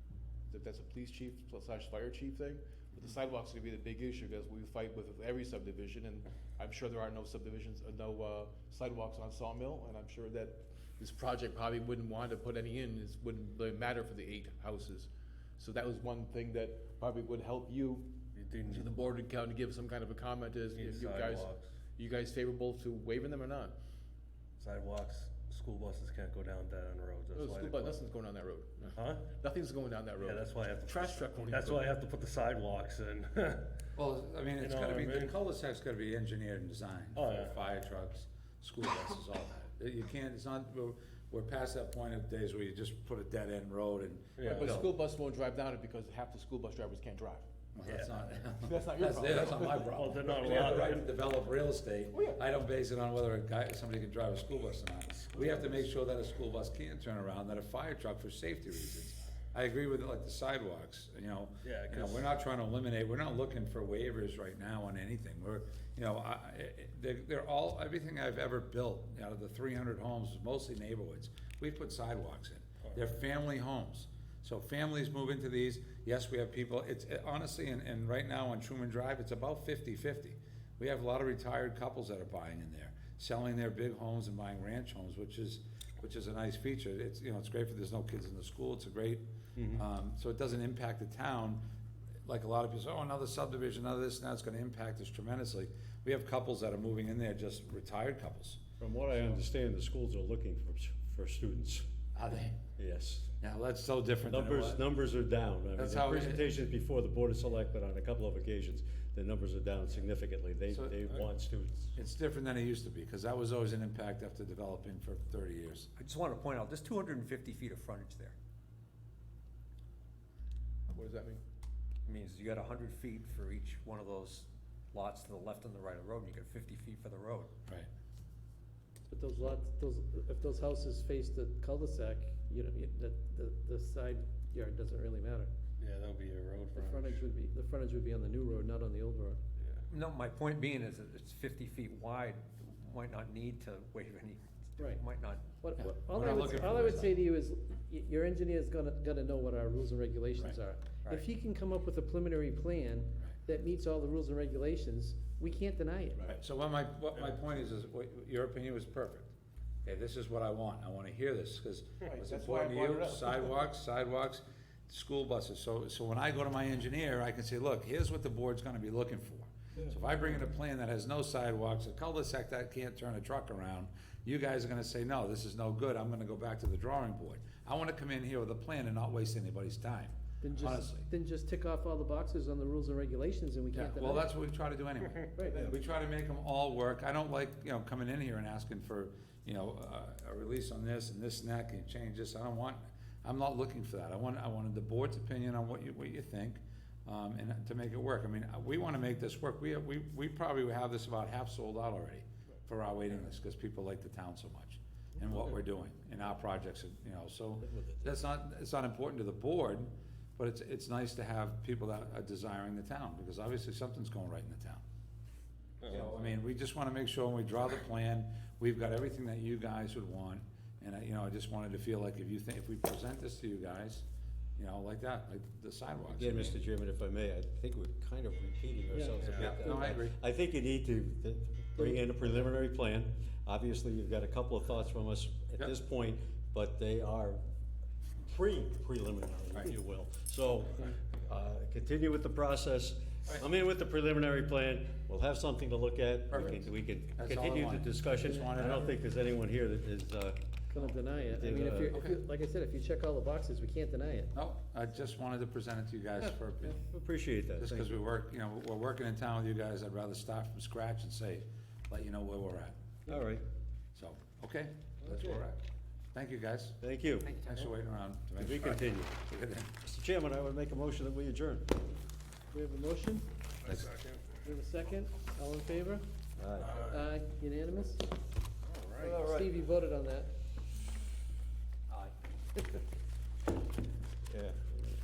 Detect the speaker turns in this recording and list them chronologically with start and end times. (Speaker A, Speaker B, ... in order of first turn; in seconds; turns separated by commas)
Speaker A: 0.5-18.1, Speaker B: 18.3-19.0, Speaker A: 18.7-21.5, Speaker B: 20.7-21.7, Speaker A: 22.0-23.7, Speaker B: 24.6-28.0, Speaker A: 27.4-31.9, Speaker B: 28.9-29.3, Speaker B: 30.2-33.7, Speaker C: 34.0-44.9, Speaker B: 34.6-35.4, Speaker B: 37.1-37.6, Speaker B: 44.4-44.9, Speaker A: 44.5-47.5, Speaker C: 47.8-91.6, Speaker B: 47.9-48.2, Speaker A: 48.7-49.5, Speaker B: 49.3-51.1, Speaker B: 61.6-62.4, Speaker D: 89.6-89.8, Speaker C: 92.3-98.6, Speaker D: 98.8-101.9, Speaker C: 102.1-102.6, Speaker D: 102.8-103.3, Speaker C: 103.4-104.8, Speaker D: 104.3-111.9, Speaker C: 105.8-106.5, Speaker C: 110.7-111.0, Speaker C: 112.0-115.9, Speaker E: 116.0-118.4, Speaker A: 120.9-121.4, Speaker E: 122.0-127.5, Speaker F: 129.1-135.5, Speaker B: 135.8-137.2, Speaker F: 136.7-139.4, Speaker E: 139.9-145.4, Speaker F: 145.6-156.3, Speaker C: 145.8-147.2, Speaker C: 156.3-159.3, Speaker B: 157.1-157.4, Speaker C: 159.8-181.1, Speaker A: 162.1-163.2, Speaker F: 180.4-184.4, Speaker C: 183.7-214.8, Speaker F: 185.3-185.6, Speaker D: 207.7-208.0, Speaker B: 215.8-216.1, Speaker C: 215.9-224.1, Speaker C: 224.6-226.6, Speaker D: 226.1-237.4, Speaker F: 228.9-230.0, Speaker B: 229.2-229.5, Speaker C: 229.3-230.2, Speaker D: 238.2-252.0, Speaker C: 246.3-246.6, Speaker C: 247.2-248.9, Speaker F: 250.7-254.3, Speaker C: 251.9-252.2, Speaker C: 254.3-256.8, Speaker D: 256.6-258.0, Speaker C: 257.6-262.8, Speaker D: 263.1-263.4, Speaker C: 263.9-265.6, Speaker C: 266.1-269.8, Speaker D: 266.8-267.3, Speaker D: 268.4-269.1, Speaker D: 269.8-271.7, Speaker F: 272.5-273.3, Speaker B: 273.6-274.4, Speaker F: 274.4-276.1, Speaker D: 276.4-276.8, Speaker F: 276.7-278.1, Speaker B: 278.6-279.1, Speaker F: 279.0-280.3, Speaker D: 279.0-279.5, Speaker D: 284.3-284.6